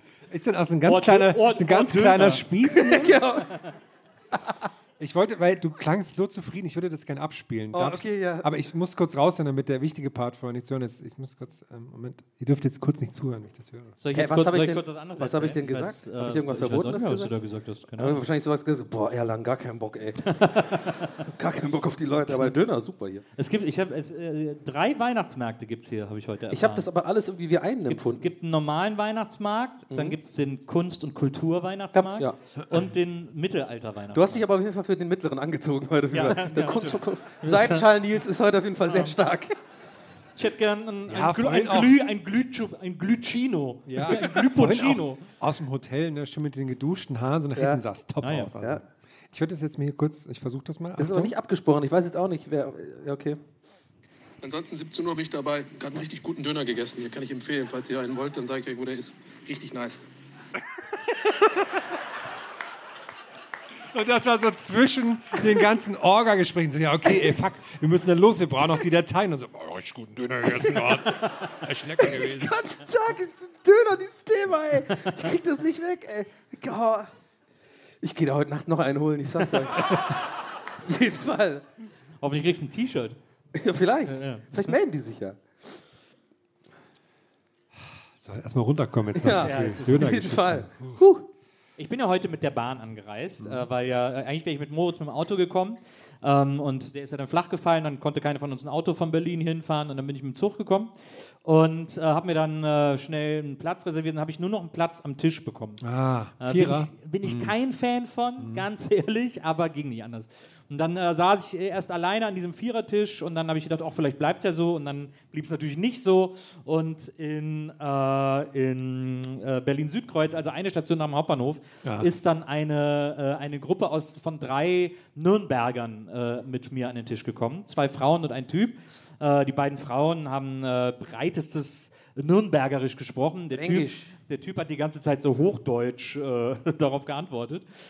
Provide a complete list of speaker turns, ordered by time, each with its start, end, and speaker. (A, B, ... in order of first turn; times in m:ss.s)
0:00.3-0:03.2 A
0:00.8-0:02.4 B
0:02.7-0:03.5 C
0:05.0-0:14.0 A
0:07.7-0:08.5 C
0:14.0-0:18.2 B
0:14.1-0:17.3 C
0:18.0-0:20.2 C
0:20.3-0:21.2 B
0:21.3-0:23.2 C
0:23.4-0:26.9 B
0:26.5-0:28.3 C
0:27.9-0:34.4 B
0:29.9-0:30.2 C
0:32.0-0:32.4 C
0:34.1-0:39.6 C
0:36.1-0:37.8 B
0:38.9-0:39.1 B
0:40.4-0:45.2 B
0:41.1-0:42.0 A
0:43.9-0:51.3 A
0:47.6-0:47.8 C
0:48.2-0:48.5 B
0:51.0-0:53.4 C
0:54.4-1:00.0 D
1:03.9-1:12.6 A
1:10.6-1:11.2 C
1:12.0-1:17.1 C
1:18.0-1:20.2 C
1:20.8-1:21.6 C
1:22.2-1:23.2 B
1:23.6-1:25.4 C
1:24.1-1:24.5 B
1:28.2-1:31.0 A
1:29.2-1:31.2 C
1:29.4-1:30.3 B
1:31.8-1:40.9 B
1:41.4-1:45.8 B
1:45.8-1:47.5 A
1:46.4-2:17.6 B
1:48.4-1:48.7 A
2:01.8-2:02.1 A
2:13.5-2:14.1 C